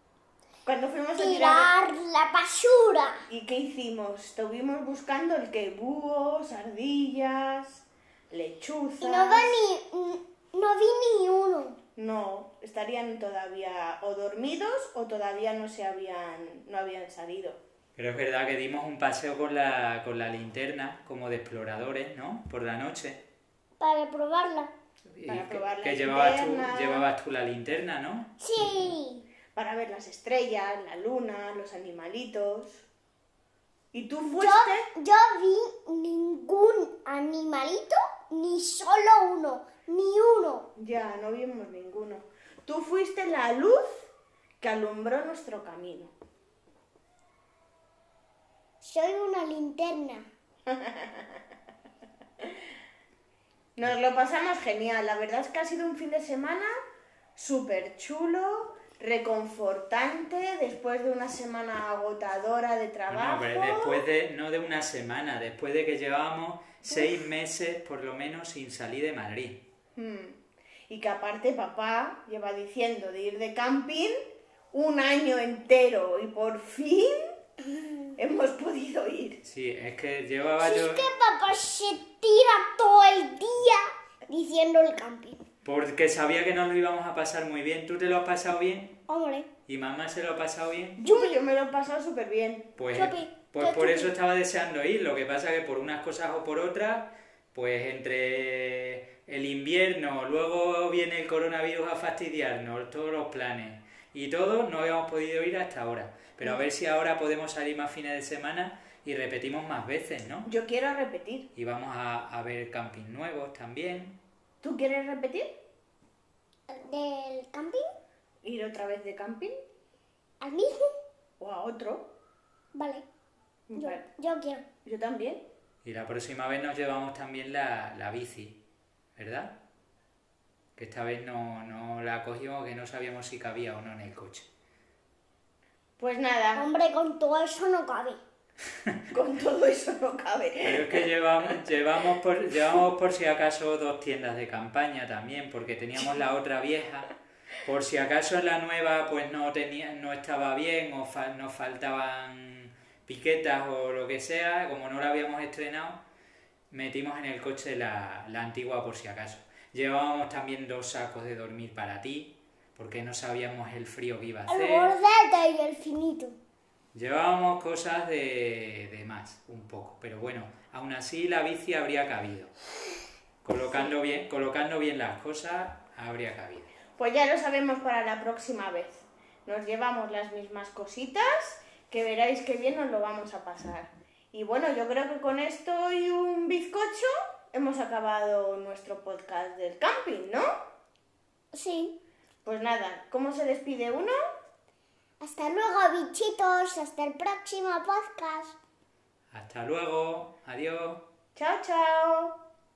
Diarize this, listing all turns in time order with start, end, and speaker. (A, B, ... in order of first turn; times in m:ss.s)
0:00.6-0:01.7 A
0:01.2-0:03.2 B
0:03.3-0:09.6 A
0:09.0-0:11.8 B
0:12.0-0:17.6 A
0:18.0-0:23.2 C
0:23.8-0:24.7 B
0:25.0-0:28.3 C
0:25.2-0:27.1 A
0:28.4-0:29.2 B
0:29.5-0:32.8 A
0:33.9-0:34.9 A
0:34.3-0:40.7 B
0:40.8-0:44.1 A
0:44.6-0:46.1 A
0:48.8-0:50.3 B
0:50.7-0:51.3 A
0:53.8-0:56.7 A
0:57.4-1:04.0 A
1:03.1-1:09.6 C
1:10.0-1:10.4 A
1:10.9-1:14.1 A
1:14.7-1:17.2 A
1:18.2-1:19.4 A
1:19.4-1:21.0 C
1:20.6-1:25.4 B
1:25.6-1:28.9 C
1:29.1-1:29.5 B
1:29.7-1:31.0 C
1:31.0-1:32.7 A
1:31.0-1:31.4 B
1:32.8-1:50.5 C
1:32.9-1:34.1 B
1:50.4-1:51.5 A
1:51.5-1:54.2 C
1:54.6-1:55.5 A
1:56.7-1:57.8 B
1:58.4-1:59.5 A
2:00.4-2:00.9 B
2:01.4-2:02.0 A
2:02.7-2:03.0 B
2:03.7-2:04.0 A
2:03.8-2:04.6 B
2:04.8-2:05.4 A
2:05.8-2:08.6 C
2:09.2-2:09.5 C
2:10.8-2:14.5 C
2:16.0-2:16.6 A
2:16.6-2:18.2 B
2:19.1-2:21.1 A
2:20.6-2:27.1 C
2:27.6-2:36.0 C
2:36.7-2:44.9 C
2:44.5-2:46.4 B
2:46.9-2:52.5 C
2:53.4-2:56.7 C
2:57.0-3:10.5 A
3:11.5-3:11.9 B
3:12.4-3:14.1 A
3:15.2-3:18.6 B
3:19.3-3:21.0 C
3:21.4-3:22.3 A